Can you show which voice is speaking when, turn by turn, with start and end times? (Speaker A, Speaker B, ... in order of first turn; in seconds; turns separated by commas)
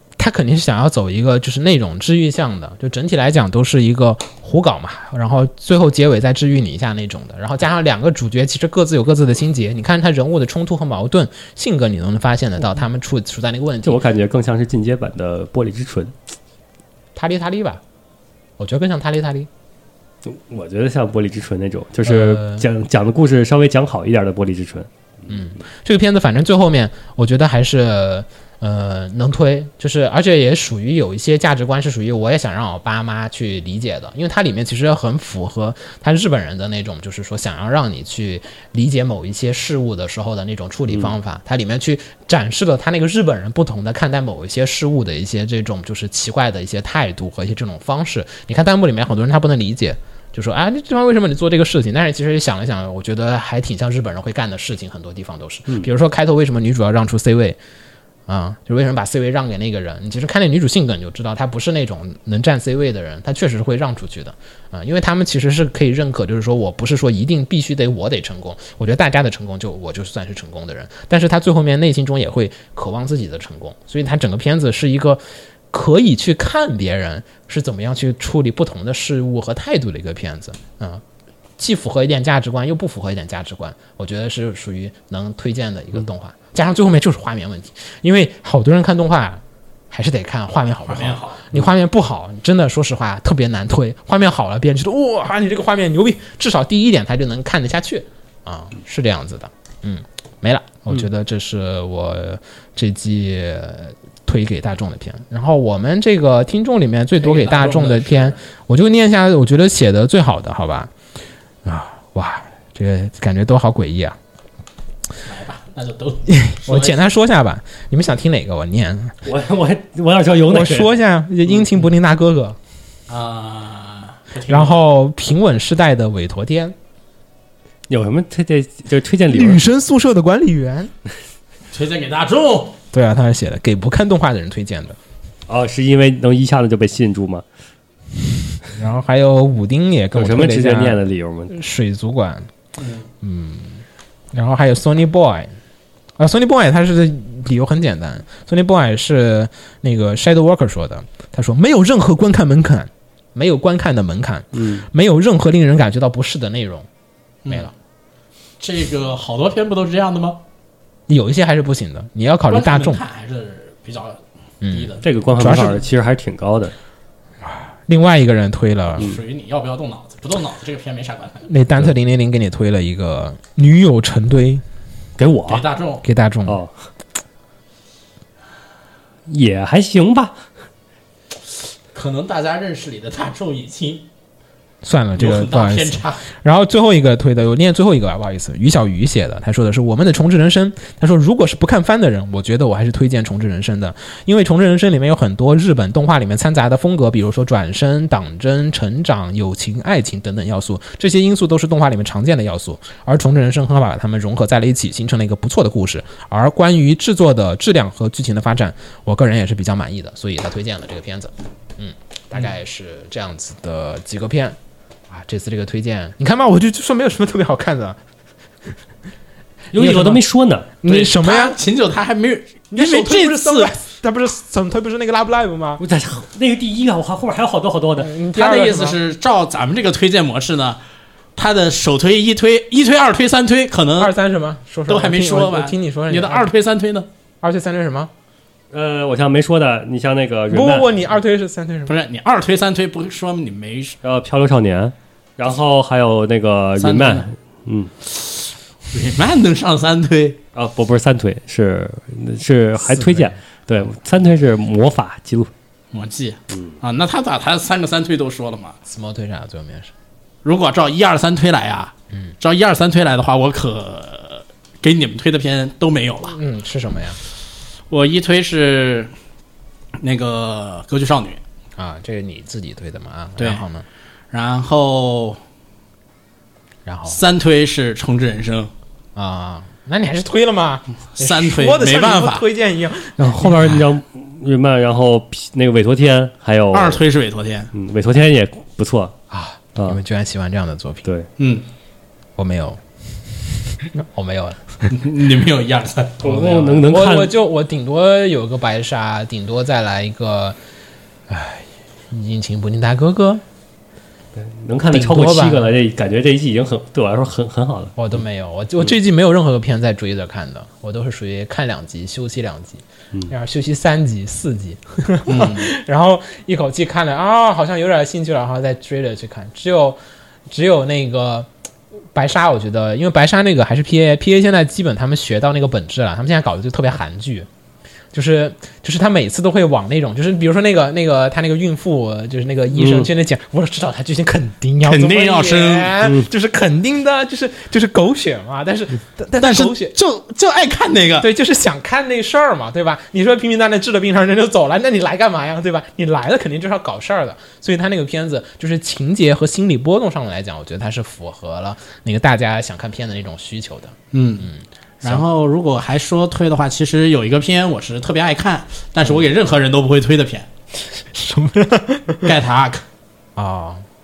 Speaker A: 0.2-14.0, Speaker B: 13.8-16.1, Speaker A: 17.1-17.8, Speaker A: 18.6-19.5, Speaker B: 20.2-24.9, Speaker A: 22.0-22.6, Speaker A: 25.3-57.6, Speaker B: 40.9-41.1, Speaker A: 58.3-81.0, Speaker A: 81.6-110.9, Speaker C: 90.9-91.4, Speaker C: 107.2-108.4, Speaker A: 111.6-114.2, Speaker C: 115.2-117.0, Speaker A: 116.3-119.2, Speaker B: 119.2-120.9, Speaker A: 120.5-122.6, Speaker C: 123.1-124.8, Speaker A: 124.5-126.7, Speaker B: 127.9-129.6, Speaker A: 129.3-130.9, Speaker C: 131.7-132.8, Speaker A: 132.9-135.0, Speaker B: 135.5-137.4, Speaker A: 138.7-142.5, Speaker B: 140.1-141.5, Speaker C: 142.8-143.1, Speaker A: 143.2-145.5, Speaker A: 146.2-156.9, Speaker B: 154.5-154.9, Speaker C: 157.4-157.7, Speaker C: 158.6-160.4, Speaker A: 161.1-163.0, Speaker C: 162.5-165.1, Speaker A: 164.6-165.8, Speaker B: 165.0-166.7, Speaker A: 167.4-169.1, Speaker C: 169.0-171.5, Speaker A: 171.5-174.6, Speaker B: 175.2-175.6, Speaker C: 175.5-176.0, Speaker A: 176.0-176.6, Speaker B: 176.5-176.7, Speaker B: 179.3-180.4, Speaker C: 181.9-184.1, Speaker A: 184.8-214.6, Speaker C: 185.2-186.2, Speaker A: 215.1-218.0, Speaker B: 219.7-220.7, Speaker A: 219.7-220.2, Speaker A: 220.8-221.6, Speaker C: 220.8-223.7, Speaker A: 222.7-225.8, Speaker B: 225.8-228.1, Speaker A: 228.0-229.0, Speaker C: 228.3-230.8, Speaker C: 231.4-234.1, Speaker A: 234.0-236.5, Speaker C: 234.9-237.1, Speaker A: 237.4-238.1, Speaker B: 238.7-240.9, Speaker A: 240.5-241.9, Speaker C: 241.9-244.0, Speaker B: 244.0-247.9, Speaker C: 246.8-247.3, Speaker C: 248.2-250.4, Speaker B: 250.5-255.5, Speaker A: 252.8-253.4, Speaker C: 255.9-258.8, Speaker A: 258.8-259.9, Speaker C: 260.4-266.4, Speaker A: 266.3-267.2, Speaker C: 267.9-269.1, Speaker C: 270.0-271.4, Speaker A: 271.8-273.8, Speaker C: 273.4-273.6, Speaker C: 274.3-275.4, Speaker A: 276.9-277.2, Speaker C: 277.1-278.7, Speaker A: 279.1-283.9, Speaker C: 281.2-282.4, Speaker B: 283.2-287.0, Speaker C: 286.7-287.7, Speaker B: 287.7-289.1, Speaker A: 289.3-291.1, Speaker C: 291.4-291.6, Speaker A: 292.4-292.8, Speaker A: 293.9-294.9, Speaker C: 294.9-296.8, Speaker B: 296.2-297.3, Speaker A: 296.9-300.6, Speaker A: 301.3-303.4, Speaker B: 304.3-307.9, Speaker A: 304.9-305.7, Speaker A: 308.0-321.5, Speaker C: 315.3-315.7, Speaker A: 322.1-327.5, Speaker A: 328.1-339.9, Speaker B: 332.8-333.1, Speaker C: 334.9-335.9, Speaker B: 336.0-336.3, Speaker C: 339.4-341.3, Speaker A: 341.2-355.2, Speaker C: 354.1-354.5, Speaker C: 355.0-360.5, Speaker A: 361.0-362.3, Speaker C: 362.2-362.8, Speaker A: 363.4-363.8